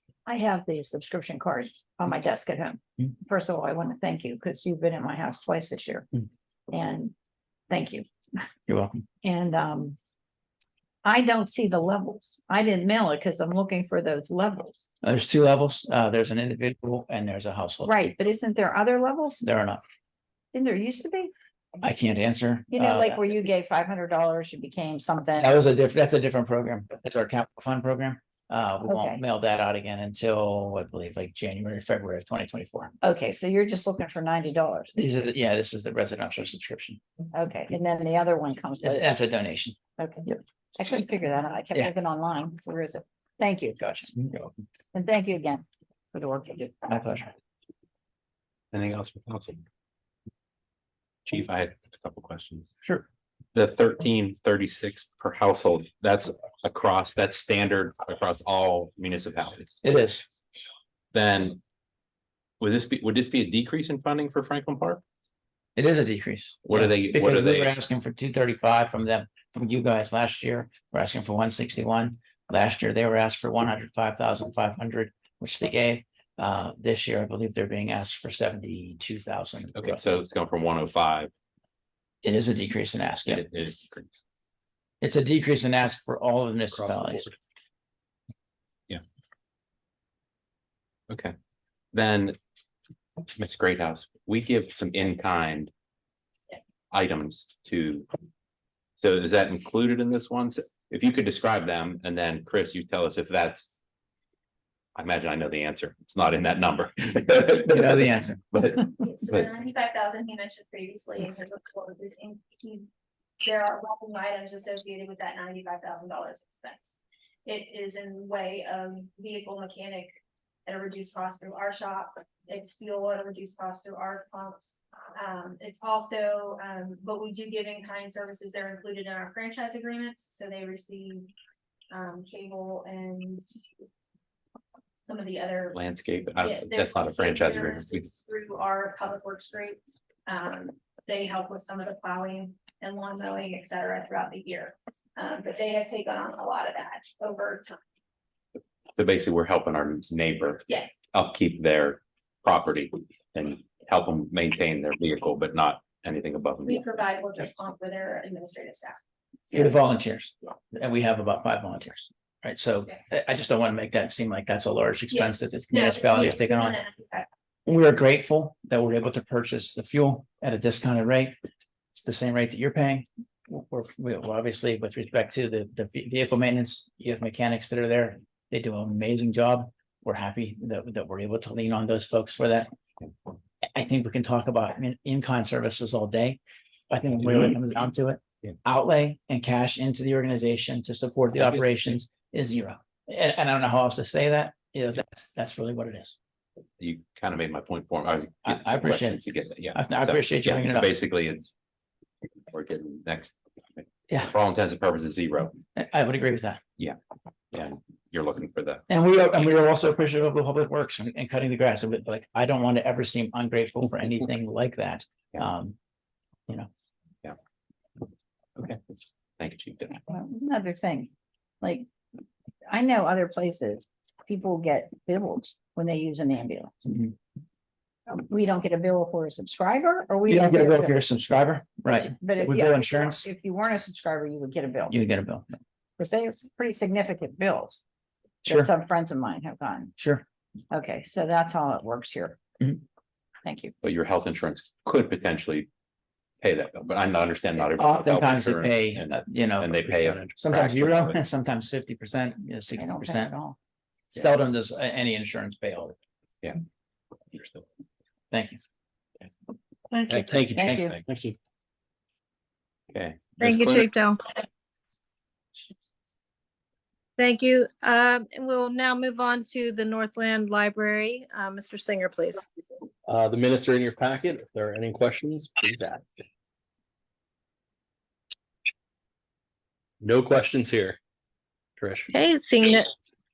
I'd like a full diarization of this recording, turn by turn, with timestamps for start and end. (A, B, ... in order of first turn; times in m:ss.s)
0:00.2-0:06.1 A
0:06.7-0:07.1 A
0:07.7-0:08.0 A
0:08.7-0:09.0 B
0:09.2-0:10.0 A
0:11.0-0:14.9 A
0:15.0-0:17.9 B
0:17.8-0:19.4 A
0:19.4-0:19.8 B
0:20.5-0:21.3 A
0:21.8-0:23.2 B
0:22.7-0:25.5 A
0:25.4-0:32.9 B
0:28.9-0:29.2 A
0:33.0-0:34.9 A
0:34.9-0:37.0 B
0:37.3-0:39.1 A
0:38.8-0:40.4 B
0:40.0-0:44.1 A
0:43.8-0:44.5 B
0:44.9-0:46.7 A
0:46.9-0:47.3 B
0:48.7-0:49.6 C
0:51.3-0:52.8 C
0:53.5-0:59.9 C
0:59.8-1:00.2 B
1:01.1-1:01.6 C
1:02.6-1:05.0 C
1:05.8-1:20.0 B
1:06.6-1:07.7 C
1:19.7-1:21.3 C
1:22.2-1:23.4 B
1:23.3-1:24.2 C
1:25.0-1:27.3 B
1:26.9-1:27.3 D
1:31.9-1:32.4 C
1:33.3-1:35.7 C
1:36.9-1:38.1 C
1:39.0-1:43.8 C
1:45.0-1:49.5 C
1:47.7-1:48.4 B
1:49.0-1:52.9 E
1:53.4-2:11.3 E
2:11.9-2:13.6 E
2:15.0-2:15.8 E
2:15.7-2:18.1 C
2:16.4-2:27.8 E
2:29.0-2:36.9 C
2:30.7-2:30.9 E
2:36.6-2:39.7 E
2:39.5-2:46.8 B
2:45.1-2:47.3 E
2:47.6-2:51.3 B
2:51.9-3:02.7 B
3:03.7-3:16.1 B
3:16.8-3:21.5 C
3:18.4-3:19.2 B
3:19.7-3:20.9 B
3:22.5-3:25.6 C
3:25.7-3:26.6 B
3:27.5-3:28.8 C
3:28.9-3:35.8 B
3:39.4-3:40.0 C
3:40.0-3:41.1 A
3:41.6-3:41.9 A
3:42.7-3:46.7 A
3:46.8-3:47.1 B
3:48.1-3:51.0 A
3:50.3-3:53.2 B
3:51.8-3:54.9 A
3:54.9-3:55.5 B
3:56.0-3:57.8 A
3:58.4-3:59.9 A
4:00.0-4:00.2 B
4:00.7-4:02.4 A
4:03.4-4:03.7 A
4:03.8-4:05.7 C
4:06.4-4:11.2 C
4:07.8-4:09.8 B
4:10.4-4:13.4 B
4:12.7-4:13.5 A
4:14.1-4:16.0 B
4:17.3-4:17.6 C
4:18.3-4:18.6 B
4:20.1-4:21.4 D
4:20.5-4:21.0 A
4:22.9-4:23.9 C
4:23.4-4:24.2 F
4:27.2-4:32.4 F
4:33.0-4:36.0 D
4:40.0-4:41.0 D
4:41.8-4:42.1 D
4:42.1-4:42.9 F